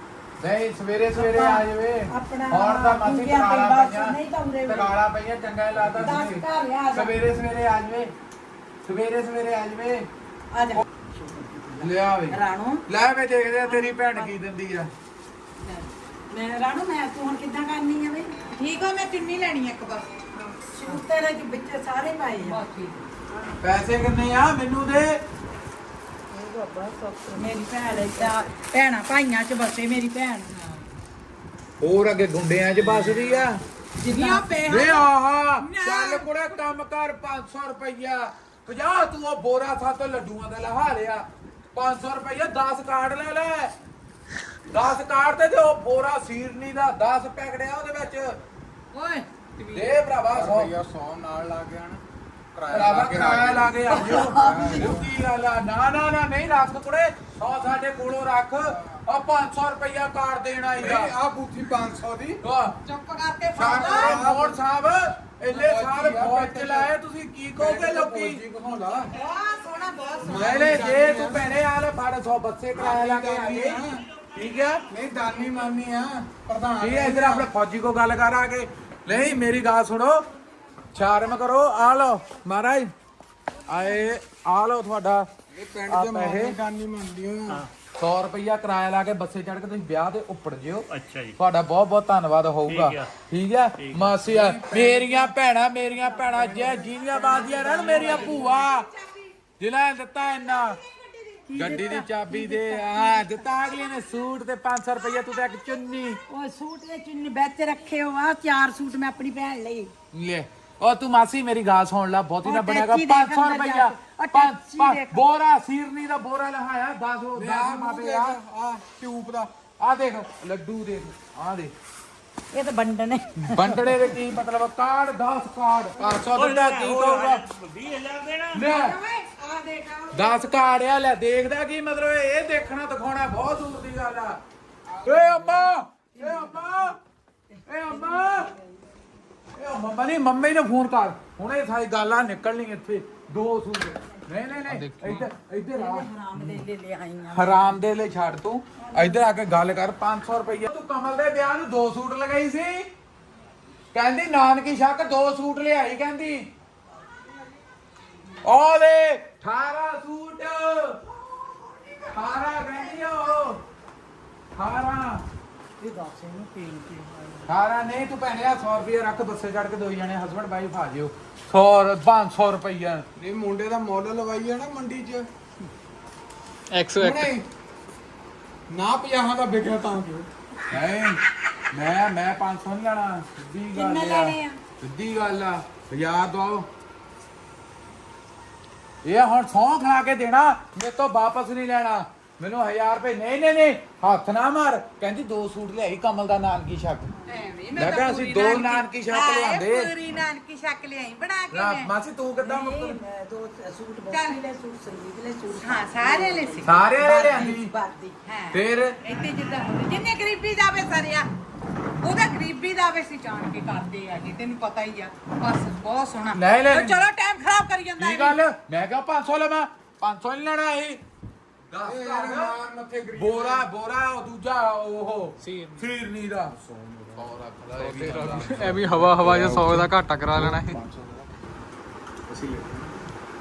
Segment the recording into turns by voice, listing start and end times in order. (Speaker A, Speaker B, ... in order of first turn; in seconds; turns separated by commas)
Speaker A: 0.4-8.1, Speaker B: 1.1-5.0, Speaker B: 5.9-7.1, Speaker A: 8.8-10.1, Speaker A: 11.8-14.9, Speaker C: 12.3-12.8, Speaker B: 13.7-14.3, Speaker B: 16.3-18.4, Speaker C: 18.5-20.3, Speaker B: 20.7-22.6, Speaker D: 22.4-23.0, Speaker A: 23.6-25.2, Speaker C: 26.4-28.3, Speaker B: 27.4-30.5, Speaker A: 31.8-33.6, Speaker C: 34.0-36.3, Speaker B: 34.1-34.5, Speaker A: 34.6-43.7, Speaker A: 44.7-48.4, Speaker C: 48.9-49.2, Speaker A: 49.7-50.7, Speaker E: 50.3-52.0, Speaker E: 52.5-55.1, Speaker A: 52.7-61.1, Speaker E: 58.6-59.0, Speaker E: 60.8-62.4, Speaker A: 62.4-62.8, Speaker C: 62.9-64.3, Speaker A: 63.5-69.0, Speaker E: 63.6-64.6, Speaker E: 65.5-66.9, Speaker E: 67.6-69.2, Speaker C: 69.1-70.5, Speaker E: 70.2-71.6, Speaker A: 70.3-73.8, Speaker E: 72.7-74.0, Speaker F: 74.0-74.8, Speaker A: 74.3-74.8, Speaker E: 74.9-77.5, Speaker A: 76.8-80.2, Speaker A: 80.9-82.9, Speaker A: 83.7-85.3, Speaker E: 85.5-87.6, Speaker A: 85.9-86.6, Speaker A: 88.0-98.9, Speaker F: 90.9-91.3, Speaker F: 92.7-93.1, Speaker F: 93.8-94.2, Speaker E: 94.2-95.3, Speaker E: 96.2-97.8, Speaker B: 96.4-98.7, Speaker C: 97.0-99.3, Speaker A: 99.6-100.8, Speaker C: 100.3-101.9, Speaker B: 101.5-103.5, Speaker A: 101.5-106.2, Speaker B: 106.3-109.9, Speaker A: 110.1-118.4, Speaker B: 112.4-115.2, Speaker E: 117.3-119.5, Speaker A: 119.8-121.7, Speaker B: 122.5-124.1, Speaker A: 123.4-127.5, Speaker F: 126.3-128.7, Speaker A: 128.5-129.0, Speaker B: 128.6-130.4, Speaker A: 130.1-134.4, Speaker E: 135.0-135.7, Speaker A: 135.0-137.0, Speaker B: 136.2-136.9, Speaker A: 137.7-138.5, Speaker B: 137.9-138.7, Speaker A: 139.6-146.6, Speaker E: 144.7-145.1, Speaker D: 144.8-145.2, Speaker B: 145.7-147.7, Speaker A: 147.3-152.9, Speaker B: 148.8-149.3, Speaker A: 153.9-156.5, Speaker A: 158.4-161.0, Speaker A: 162.1-163.6, Speaker A: 164.6-165.3, Speaker B: 165.8-166.6, Speaker A: 167.5-173.1, Speaker E: 173.2-175.3, Speaker D: 176.7-177.3, Speaker E: 177.0-177.4, Speaker E: 178.7-180.3, Speaker A: 180.7-181.2, Speaker A: 181.7-186.7, Speaker B: 183.7-184.6, Speaker A: 189.0-197.1, Speaker C: 197.3-201.9, Speaker A: 197.8-199.9, Speaker D: 197.9-198.4, Speaker A: 201.5-203.0, Speaker B: 202.4-208.1, Speaker C: 204.0-204.4, Speaker C: 205.5-211.3, Speaker A: 206.6-207.7, Speaker A: 208.5-209.0, Speaker C: 212.0-218.4, Speaker A: 216.3-217.1, Speaker A: 218.0-221.0, Speaker A: 221.7-222.6, Speaker E: 221.8-223.7, Speaker A: 223.1-226.5, Speaker D: 225.4-225.8, Speaker E: 226.4-227.3, Speaker A: 227.2-229.2, Speaker D: 227.8-230.8, Speaker E: 227.9-231.4, Speaker E: 232.3-232.9